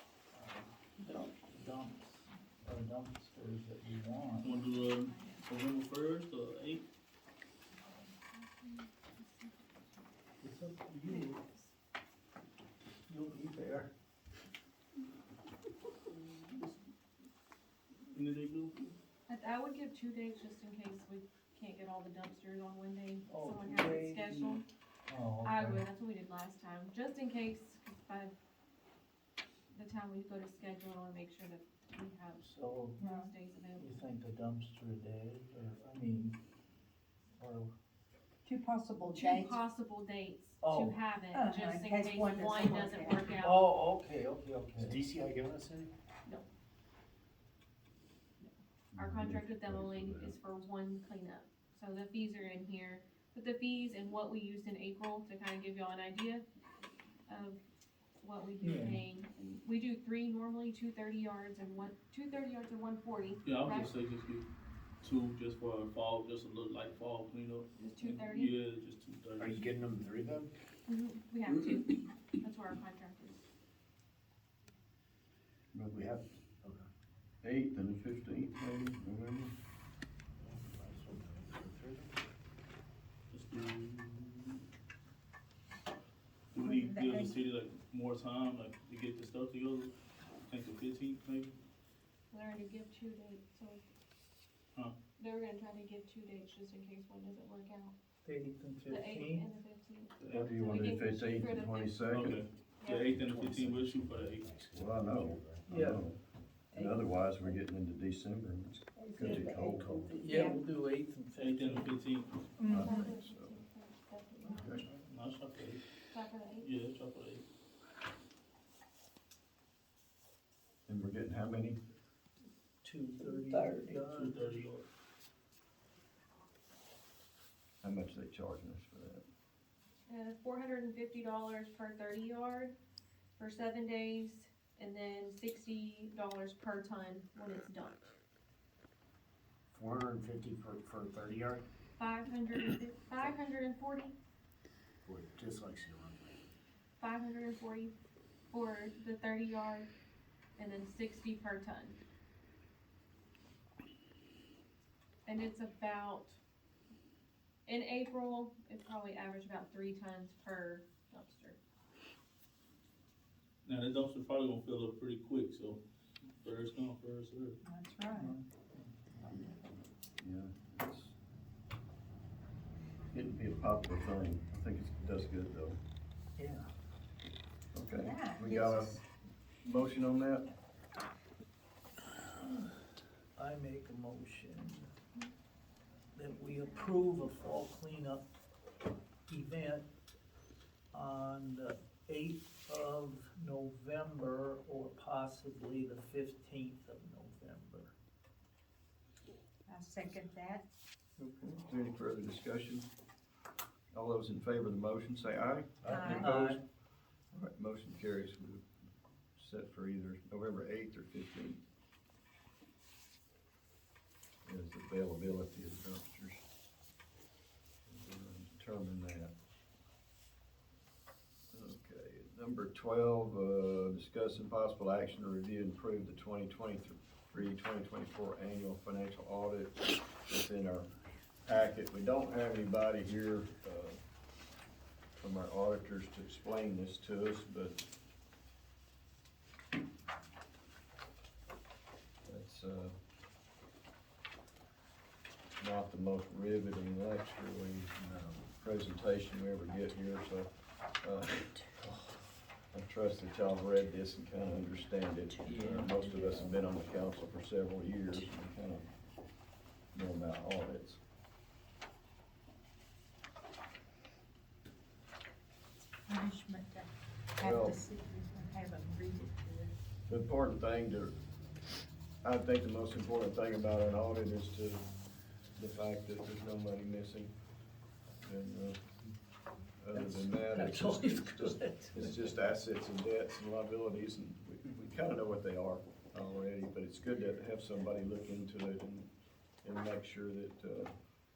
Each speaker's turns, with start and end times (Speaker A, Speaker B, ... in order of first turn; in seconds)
Speaker A: 0.3-4.6, 10.4-11.4, 13.1-13.9, 16.2-16.7, 23.3-25.9, 32.4-33.0, 33.8-36.4, 37.4-37.7, 40.6-41.0, 43.4-45.0, 58.6-59.0, 98.2-99.5, 105.7-106.1, 109.0-111.9, 122.8-124.6, 168.1-169.6, 176.4-176.7, 183.3-184.9, 186.2-188.2, 189.3-189.9, 190.9-197.9, 206.1-206.6, 279.9-282.2
Speaker B: 4.4-5.4, 7.8-10.0, 11.1-11.7, 19.3-24.6, 25.4-28.3, 29.7-32.5, 33.0-34.1, 39.1-43.6, 48.4-56.5, 57.3-57.6, 58.2-63.9, 67.7-68.5, 70.9-73.4, 92.3-93.8, 95.2-97.9, 98.9-102.0, 102.8-103.2, 112.6-114.8, 116.1-116.7, 130.1-132.8, 133.4-138.1, 142.0-144.2, 147.0-147.9, 148.5-149.9, 150.6-152.0, 155.3-156.4, 157.7-161.6
Speaker C: 4.4-6.9, 18.1-19.0, 63.4-64.5, 65.0-69.7, 83.3-84.6, 86.5-91.5, 100.2-100.7, 102.1-104.5, 111.4-112.5, 114.9-115.9, 116.5-117.4, 123.7-124.8, 163.7-165.8, 166.4-167.6
Speaker D: 33.0-33.3, 38.5-39.6, 41.3-43.4, 86.6-87.3, 110.3-110.6, 112.6-113.1, 167.6-168.4, 177.9-179.0, 199.7-200.6, 205.8-206.4, 255.5-256.6, 266.1-269.8
Speaker E: 44.9-45.9, 69.4-70.5, 75.9-76.9, 80.7-82.2, 103.3-105.7, 109.2-110.2, 139.7-141.7, 145.1-146.4, 248.0-248.5
Speaker F: 48.9-50.4, 75.7-76.2, 77.4-79.5, 100.3-102.4, 104.7-110.0, 112.7-113.6, 114.5-114.8, 120.9-121.8, 127.8-129.2, 170.2-171.2, 173.1-175.8, 177.7-179.0, 179.6-180.5, 201.2-202.9, 203.9-206.6, 207.3-208.7, 209.3-211.6, 214.4-216.4, 217.9-219.3, 221.5-230.9, 231.4-234.0, 235.2-237.8, 242.2-242.9, 245.6-247.9, 248.5-251.7, 252.7-258.9, 259.9-261.0, 267.4-267.8, 270.1-271.1, 272.2-274.9, 275.6-277.3, 278.2-278.9, 279.8-289.1, 289.6-290.9